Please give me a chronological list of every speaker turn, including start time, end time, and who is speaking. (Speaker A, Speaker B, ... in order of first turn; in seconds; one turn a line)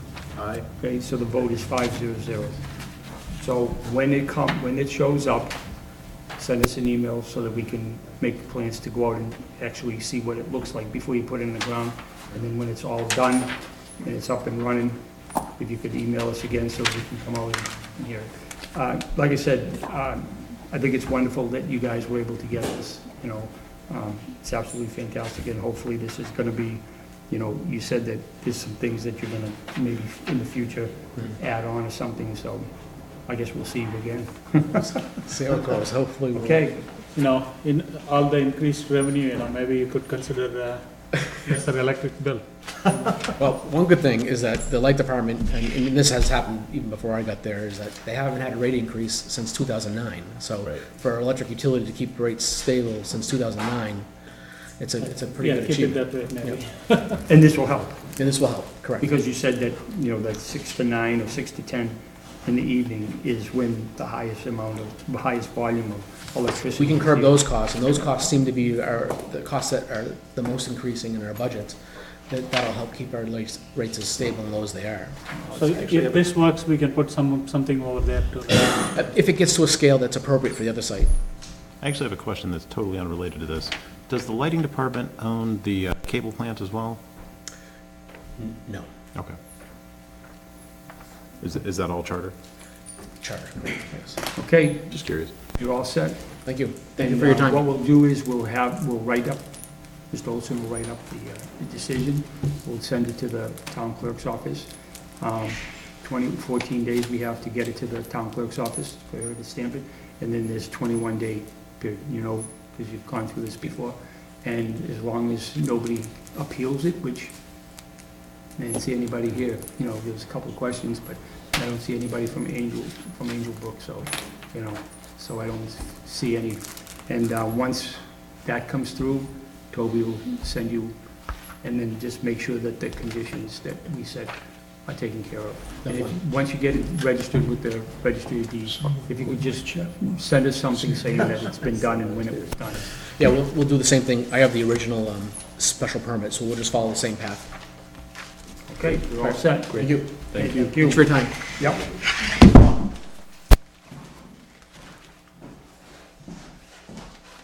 Speaker A: 0.3-0.6
Speaker B: 0.8-35.1
Speaker C: 34.8-36.6
Speaker B: 36.3-37.0
Speaker D: 37.1-42.5
Speaker C: 43.2-54.1
Speaker C: 54.8-56.6
Speaker D: 55.0-57.2
Speaker B: 57.3-58.2
Speaker C: 58.2-59.1
Speaker B: 59.0-67.5
Speaker C: 66.8-75.4
Speaker B: 75.3-76.0
Speaker D: 75.5-79.1
Speaker C: 78.6-81.1
Speaker A: 81.8-87.0
Speaker C: 88.4-88.9
Speaker A: 91.4-92.3
Speaker C: 93.2-94.2
Speaker B: 94.3-117.4
Speaker A: 94.9-95.3
Speaker C: 96.4-97.7
Speaker B: 118.6-143.0
Speaker C: 135.8-136.2
Speaker C: 143.1-147.5
Speaker B: 148.7-151.8
Speaker C: 149.2-151.8